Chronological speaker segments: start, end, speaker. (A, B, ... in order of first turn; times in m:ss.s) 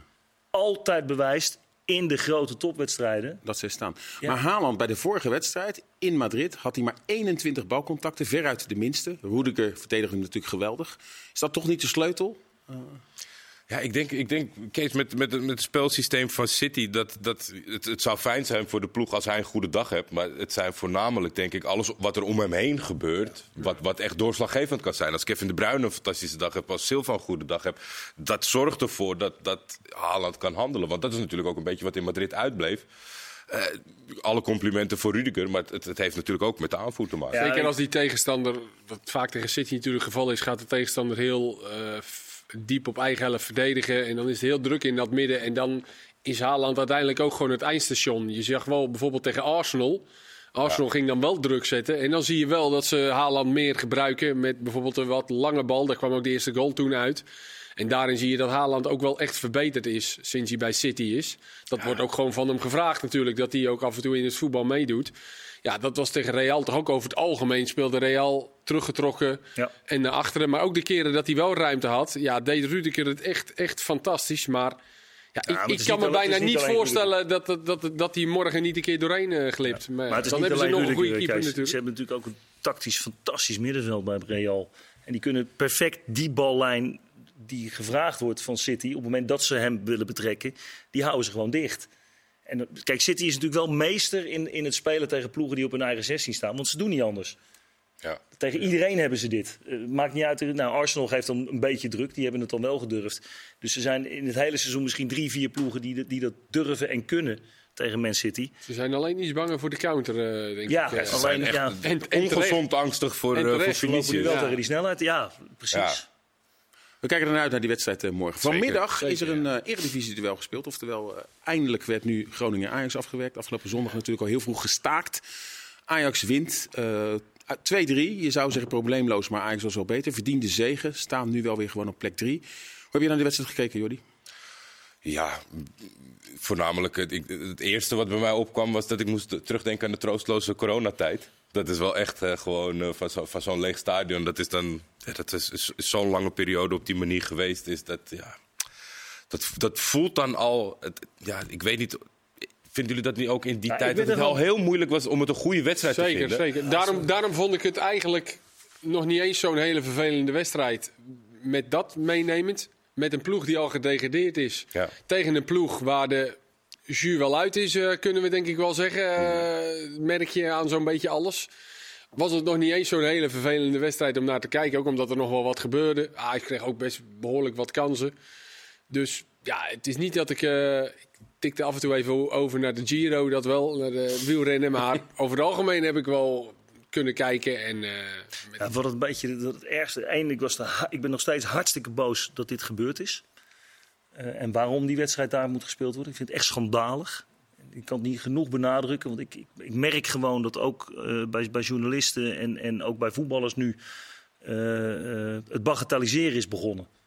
0:00.5-0:03.4 A
0:03.4-0:13.0 B
0:13.7-0:32.8 C
0:33.5-0:37.4 C
0:37.3-0:37.7 A
0:37.3-0:57.2 D
0:57.8-1:14.8 D
1:15.4-1:21.8 D
1:15.4-1:17.1 A
1:20.1-1:31.9 A
1:32.5-1:37.4 A
1:38.4-1:48.5 A
1:48.6-1:51.3 D
1:50.7-1:51.8 A
1:51.0-1:54.4 C
1:51.8-1:52.6 D
1:53.3-1:54.6 D
1:53.8-1:56.1 A
1:55.7-1:56.0 C
1:57.0-2:05.2 B
1:58.4-1:58.8 C
1:59.0-1:59.4 D
2:05.9-2:14.0 B
2:15.0-2:28.4 C
2:29.3-2:32.0 C
2:32.6-2:36.4 C
2:33.7-2:34.4 A
2:35.9-2:46.4 D
2:46.9-2:51.5 D
2:49.2-2:49.4 C
2:52.1-2:58.1 D
2:58.9-3:08.6 D
3:08.6-3:13.2 A
3:14.2-3:23.8 A
3:24.4-3:26.9 A